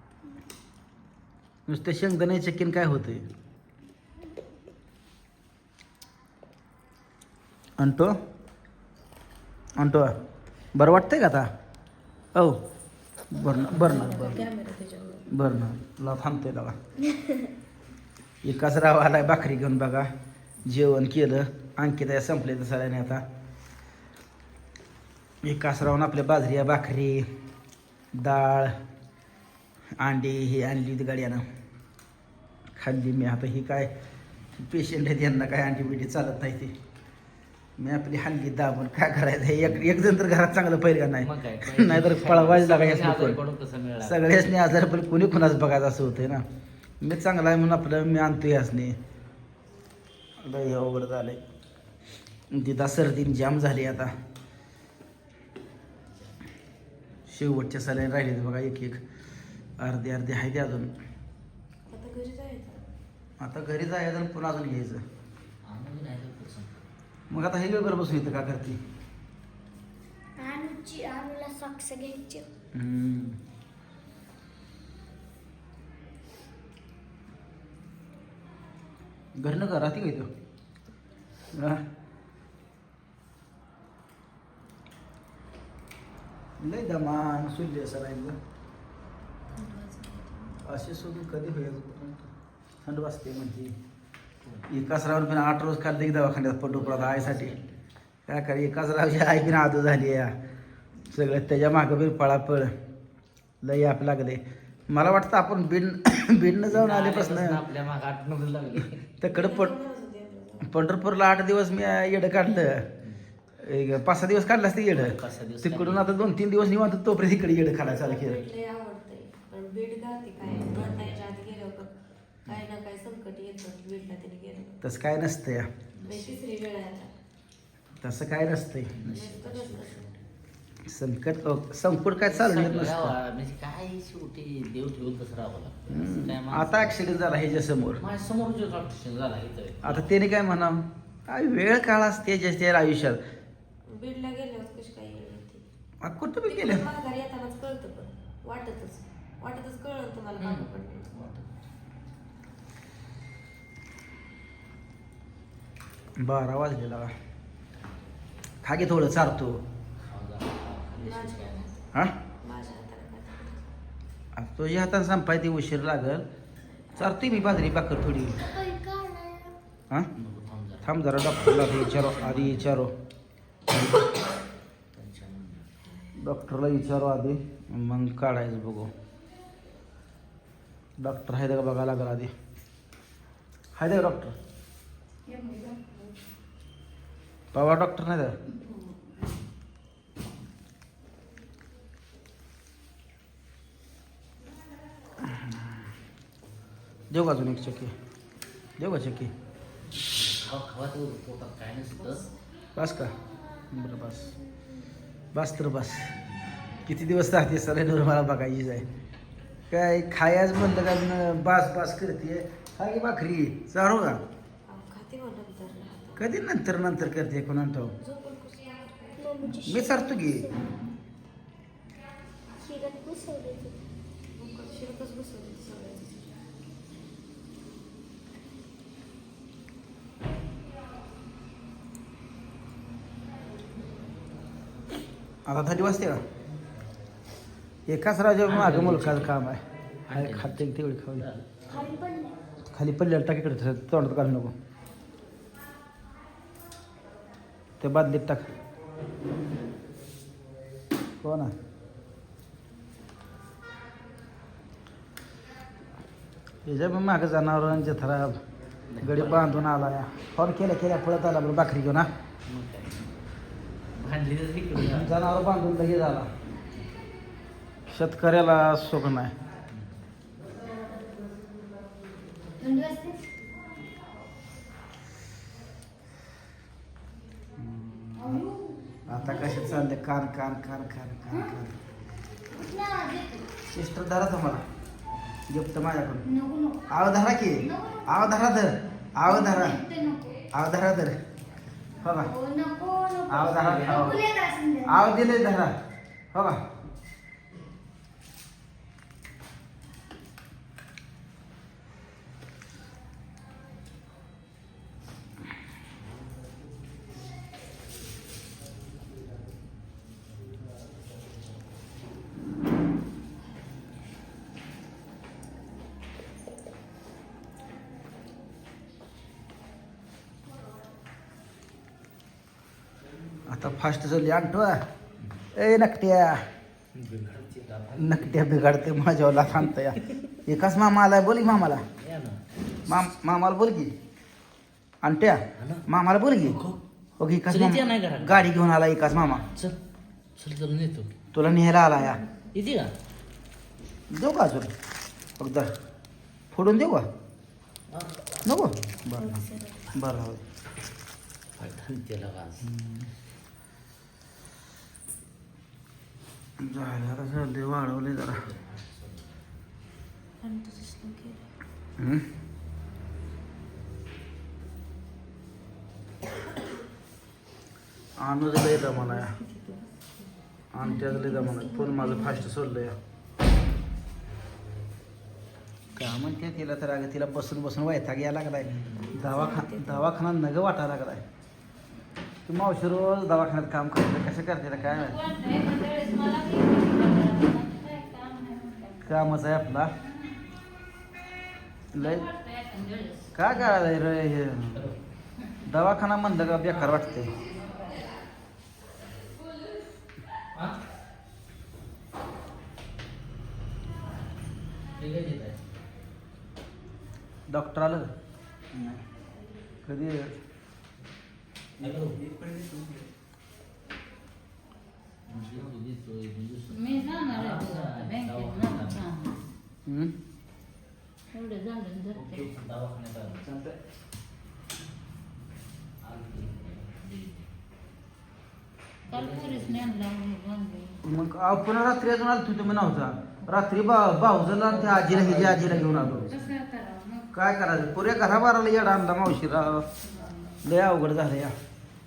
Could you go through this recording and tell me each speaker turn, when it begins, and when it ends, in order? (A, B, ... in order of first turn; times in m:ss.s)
0:01.7-0:03.3 A
0:07.8-0:08.2 A
0:09.8-0:10.2 A
0:10.8-0:11.5 A
0:12.3-0:12.6 A
0:13.3-0:14.4 A
0:13.4-0:15.3 B
0:15.3-0:16.8 A
0:18.4-0:20.1 A
0:20.6-0:23.2 A
0:25.4-0:27.3 A
0:28.2-0:28.7 A
0:30.0-0:31.4 A
0:32.8-0:33.9 A
0:34.6-0:36.7 A
0:37.8-0:43.4 A
0:39.6-0:40.0 C
0:41.2-0:44.4 C
0:44.0-0:46.4 A
0:47.0-0:49.0 A
0:50.4-0:51.4 A
0:52.5-0:54.1 A
0:57.3-0:59.0 A
0:59.8-1:00.9 A
1:01.9-1:02.8 B
1:03.4-1:05.0 A
1:05.6-1:06.8 C
1:07.3-1:08.8 A
1:10.4-1:12.5 D
1:12.7-1:13.4 A
1:19.4-1:20.3 A
1:21.5-1:21.8 A
1:26.6-1:28.4 A
1:29.7-1:30.5 B
1:30.6-1:32.3 A
1:32.8-1:33.7 A
1:34.4-1:34.7 C
1:34.7-1:37.5 A
1:36.7-1:37.8 C
1:38.3-1:40.3 A
1:41.1-1:42.7 A
1:43.6-1:47.6 A
1:46.7-1:49.0 C
1:49.2-1:49.7 A
1:49.3-1:50.7 B
1:50.6-1:52.8 A
1:53.6-1:58.4 A
1:54.9-1:56.2 C
1:57.9-2:01.9 B
2:00.4-2:01.4 C
2:02.5-2:04.8 B
2:04.8-2:05.7 A
2:05.9-2:06.4 C
2:06.0-2:07.1 B
2:08.0-2:09.0 A
2:08.9-2:10.2 C
2:09.0-2:10.0 B
2:10.9-2:13.2 A
2:12.2-2:17.0 C
2:15.9-2:18.0 A
2:18.0-2:20.2 C
2:19.8-2:23.2 A
2:23.9-2:25.6 B
2:26.0-2:26.9 A
2:26.4-2:31.2 B
2:30.4-2:31.5 C
2:36.2-2:37.1 A
2:38.6-2:39.6 A
2:40.0-2:41.7 C
2:41.0-2:41.9 B
2:42.4-2:43.7 B
2:44.4-2:46.3 A
2:47.0-2:48.5 A
2:48.4-2:49.6 D
2:50.2-2:52.8 C
2:50.8-2:52.9 A
2:54.9-2:55.8 C
2:56.2-2:58.9 A
3:01.0-3:02.3 A
3:03.8-3:04.3 A
3:05.3-3:06.0 E
3:07.5-3:08.4 A
3:15.2-3:15.7 A
3:17.1-3:17.9 A
3:18.8-3:19.3 A
3:20.0-3:22.3 C
3:22.8-3:23.1 A
3:23.7-3:24.3 A
3:25.3-3:26.1 A
3:26.9-3:28.8 A
3:29.7-3:34.2 A
3:34.7-3:36.3 B
3:36.2-3:37.9 A
3:38.0-3:39.3 B
3:39.2-3:40.8 D
3:39.6-3:40.5 A
3:42.6-3:43.8 D
3:44.4-3:46.3 B
3:55.5-3:56.2 A
3:57.9-4:01.2 A
3:58.4-3:59.4 C
4:00.1-4:01.6 C
4:01.7-4:02.4 D
4:02.6-4:04.5 A
4:07.8-4:08.5 A
4:11.2-4:11.5 A
4:16.6-4:18.4 A
4:18.9-4:19.7 C
4:19.0-4:22.1 A
4:22.5-4:23.0 C
4:24.0-4:25.2 C
4:24.8-4:26.3 A
4:27.9-4:29.3 A
4:29.7-4:30.0 C
4:32.6-4:33.2 D
4:37.6-4:38.4 A
4:38.2-4:39.8 D
4:39.1-4:41.8 A
4:42.5-4:43.5 D
4:43.7-4:44.6 A
4:45.5-4:46.2 A
4:46.3-4:46.8 D
4:46.9-4:49.8 A
4:47.6-4:48.3 D
4:49.4-4:50.4 D
4:49.6-4:50.2 E
4:50.5-4:51.2 A
4:52.0-4:52.3 A
4:52.0-4:55.1 D
4:53.3-4:54.2 A
4:53.6-4:54.2 C
4:54.8-4:55.7 A
4:56.3-4:56.6 A
5:23.5-5:24.8 A
5:25.2-5:25.5 C
5:25.5-5:26.4 A
5:26.9-5:28.6 C
5:28.0-5:31.8 A
5:31.9-5:32.4 C
5:32.9-5:33.9 A
5:35.0-5:36.6 A
5:35.6-5:35.9 C
5:36.4-5:36.8 C
5:37.2-5:39.5 A
5:37.5-5:38.5 C
5:39.3-5:39.8 C
5:40.4-5:41.2 C
5:41.3-5:42.2 A
5:42.5-5:42.9 C
5:44.1-5:44.7 A
5:45.4-5:45.7 A
5:46.5-5:47.1 A
5:47.9-5:49.2 C
5:48.4-5:49.4 A
5:49.4-5:49.9 D
5:49.9-5:50.4 A
5:51.6-5:52.7 C
5:52.7-5:53.1 A
5:56.6-5:58.4 A
5:58.2-5:59.4 C
6:00.4-6:01.4 B
6:02.0-6:02.2 A
6:08.2-6:09.3 A
6:08.7-6:10.2 B
6:10.7-6:13.0 A
6:10.9-6:12.3 E
6:16.0-6:21.2 A
6:18.6-6:19.2 C
6:19.1-6:20.1 B
6:22.5-6:25.2 A
6:24.9-6:29.3 E
6:29.0-6:29.9 A
6:30.0-6:30.4 E
6:31.9-6:32.3 A
6:32.0-6:33.5 E
6:33.4-6:34.9 A
6:35.6-6:37.3 A
6:45.0-6:45.7 C
6:47.5-6:48.1 A
6:48.7-6:49.0 A
6:49.8-6:50.3 A
6:51.8-6:52.6 C
6:55.3-6:59.1 C
6:56.7-6:59.4 E
6:59.9-7:00.1 A
7:01.3-7:02.5 E
7:02.1-7:03.5 C
7:03.4-7:03.8 A
7:06.0-7:07.5 C
7:09.1-7:09.9 C
7:09.1-7:11.0 E
7:11.0-7:16.3 A
7:14.6-7:16.5 C
7:16.3-7:17.3 E
7:17.3-7:19.9 A
7:20.0-7:20.5 E
7:20.6-7:21.5 A